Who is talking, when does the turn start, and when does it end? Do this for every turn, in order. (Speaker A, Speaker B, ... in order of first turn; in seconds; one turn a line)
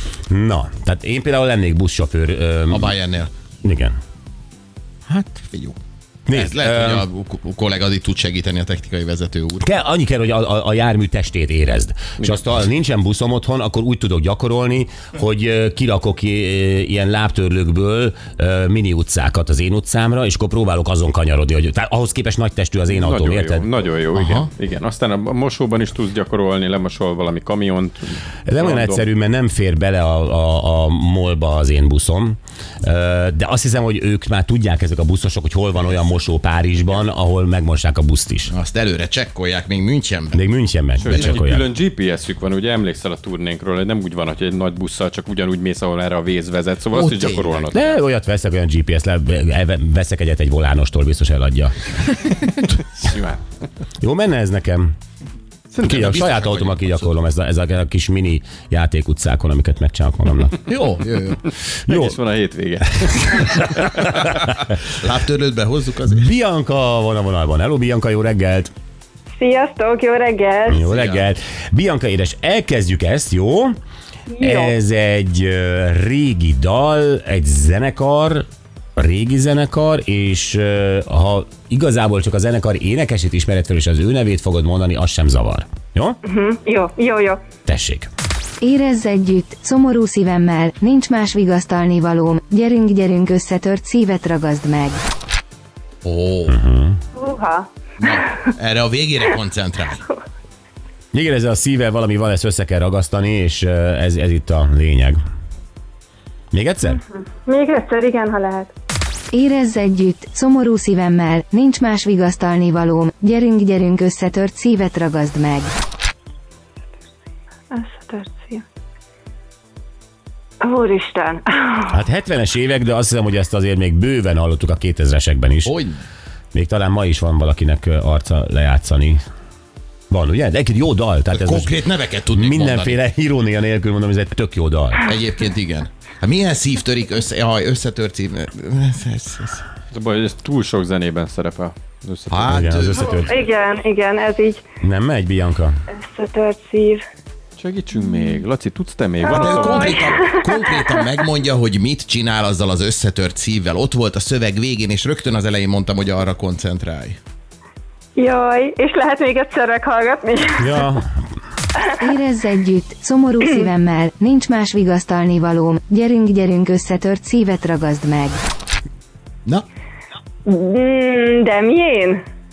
Speaker A: 0.3-2.9
Speaker B: 2.7-3.3
Speaker A: 3.6-4.0
Speaker B: 5.1-5.8
Speaker A: 6.3-7.0
Speaker B: 6.3-9.6
Speaker A: 9.6-23.7
Speaker C: 22.9-29.0
Speaker B: 24.1-24.5
Speaker A: 28.5-38.5
Speaker B: 38.5-40.4
Speaker A: 40.3-41.7
Speaker B: 41.0-41.3
Speaker C: 41.0-48.0
Speaker B: 46.9-47.7
Speaker A: 47.7-52.3
Speaker C: 52.8-53.4
Speaker A: 54.0-54.9
Speaker C: 55.7-56.0
Speaker A: 55.8-60.6
Speaker B: 55.9-57.1
Speaker B: 60.7-61.4
Speaker A: 61.9-62.2
Speaker C: 61.9-63.8
Speaker A: 63.0-64.3
Speaker B: 64.9-66.3
Speaker A: 66.1-68.7
Speaker D: 69.4-70.8
Speaker A: 70.7-73.8
Speaker B: 70.8-71.2
Speaker D: 74.3-74.7
Speaker A: 74.4-78.5
Speaker A: 79.0-86.2
Speaker D: 86.3-87.4
Speaker A: 87.7-88.1
Speaker E: 88.6-95.0
Speaker B: 96.0-96.6
Speaker A: 96.5-97.0
Speaker D: 97.2-97.7
Speaker B: 98.0-100.0
Speaker A: 101.1-105.2
Speaker A: 106.5-107.0
Speaker D: 107.4-108.7
Speaker E: 109.3-115.7
Speaker D: 117.7-118.6
Speaker D: 120.6-121.7
Speaker A: 121.9-125.7
Speaker B: 125.7-126.0
Speaker A: 126.5-129.2
Speaker A: 130.1-135.1
Speaker B: 131.3-133.0
Speaker B: 135.0-139.6
Speaker C: 139.9-142.5
Speaker B: 142.3-143.1
Speaker A: 142.5-143.3
Speaker D: 143.3-144.6
Speaker A: 144.8-145.8
Speaker D: 146.1-147.0
Speaker C: 147.6-150.1
Speaker D: 149.2-150.5
Speaker B: 149.4-157.2
Speaker D: 158.2-160.6
Speaker A: 160.6-161.1
Speaker E: 162.0-168.4
Speaker D: 170.5-172.2